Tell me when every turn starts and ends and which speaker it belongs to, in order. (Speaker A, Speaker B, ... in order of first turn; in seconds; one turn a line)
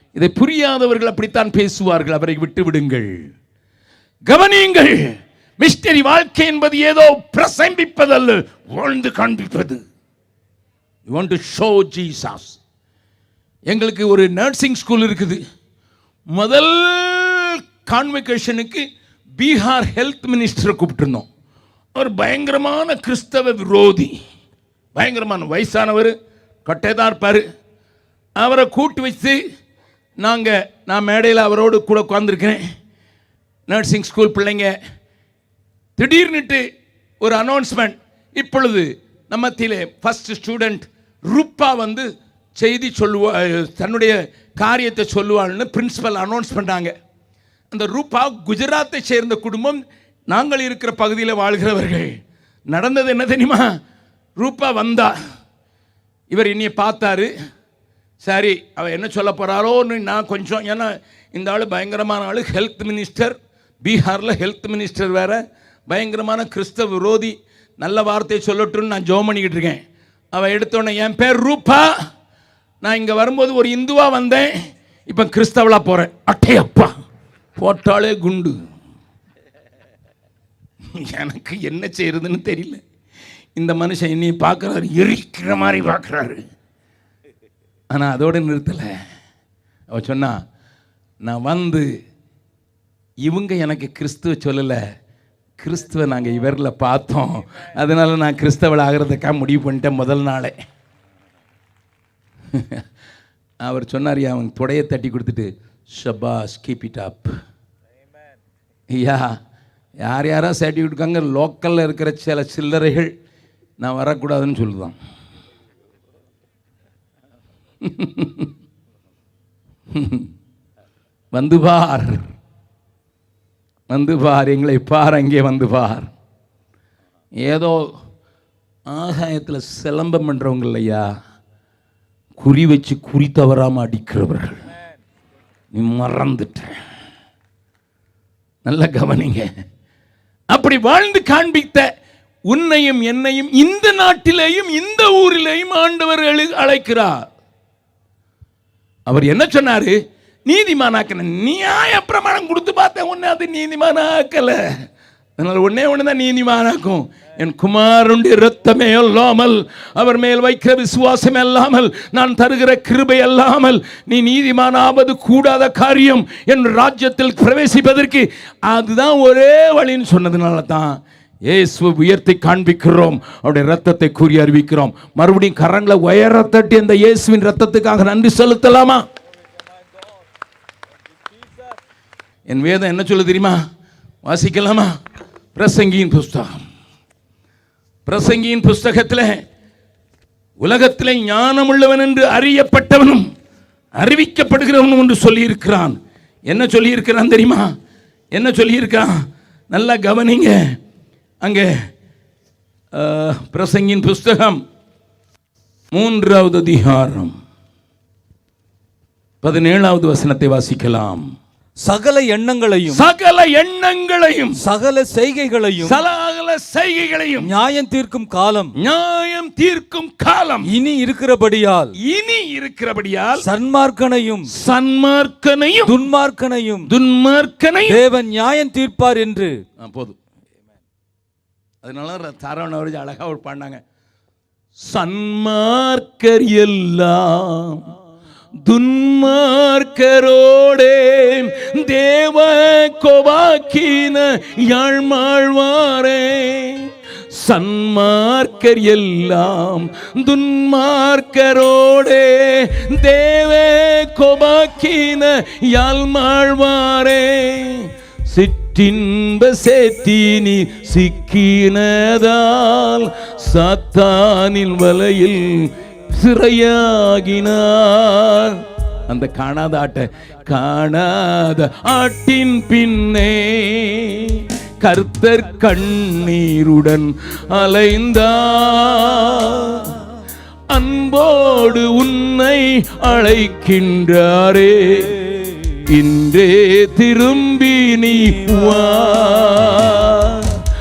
Speaker A: 0.1-3.1
Speaker A: 4.3-9.8
Speaker A: 11.1-12.6
Speaker A: 13.7-15.4
Speaker A: 16.3-18.8
Speaker A: 19.4-21.2
Speaker A: 21.9-24.1
Speaker A: 24.9-26.1
Speaker A: 26.6-27.4
Speaker A: 28.4-29.4
Speaker A: 30.2-32.6
Speaker A: 33.7-34.7
Speaker A: 36.0-36.6
Speaker A: 37.2-42.0
Speaker A: 42.6-46.9
Speaker A: 47.7-52.1
Speaker A: 52.7-53.7
Speaker A: 54.4-55.1
Speaker A: 56.3-57.3
Speaker A: 58.2-69.8
Speaker A: 70.3-71.9
Speaker A: 72.8-74.5
Speaker A: 75.1-76.9
Speaker A: 77.6-78.6
Speaker A: 80.9-82.8
Speaker A: 83.5-86.4
Speaker A: 87.9-88.9
Speaker A: 89.9-90.4
Speaker A: 91.2-91.9
Speaker A: 93.2-94.8
Speaker A: 95.6-100.5
Speaker A: 102.5-102.8
Speaker A: 103.6-107.3
Speaker A: 108.9-109.3
Speaker A: 110.0-113.1
Speaker A: 113.8-115.0
Speaker A: 117.8-118.5
Speaker A: 119.9-120.3
Speaker A: 121.3-122.2
Speaker A: 123.9-126.1
Speaker A: 127.4-127.9
Speaker A: 128.9-131.1
Speaker A: 132.4-134.6
Speaker A: 135.7-136.7
Speaker A: 138.7-139.5
Speaker A: 140.5-141.9
Speaker A: 142.5-147.2
Speaker A: 149.1-154.6
Speaker A: 155.4-179.0
Speaker A: 182.5-183.6
Speaker A: 184.2-184.9
Speaker A: 185.6-186.6
Speaker A: 188.1-189.4
Speaker A: 190.6-193.2
Speaker A: 194.0-196.0
Speaker A: 196.5-197.7
Speaker A: 198.3-199.2
Speaker A: 199.7-200.7
Speaker A: 201.4-201.7
Speaker A: 202.9-204.6
Speaker A: 205.9-207.3
Speaker A: 209.4-211.2
Speaker B: 211.8-213.0
Speaker A: 212.9-214.6
Speaker B: 214.6-216.0
Speaker A: 215.8-217.5
Speaker B: 217.4-218.7
Speaker A: 218.8-220.7
Speaker B: 220.7-222.0
Speaker A: 222.0-223.5
Speaker B: 223.4-224.5
Speaker A: 224.5-226.0
Speaker B: 225.9-226.9
Speaker A: 226.8-228.0
Speaker B: 227.9-229.6
Speaker A: 229.8-230.2
Speaker A: 231.8-233.8
Speaker A: 234.8-237.8
Speaker A: 238.6-280.1
Speaker A: 280.7-285.2
Speaker A: 285.9-290.6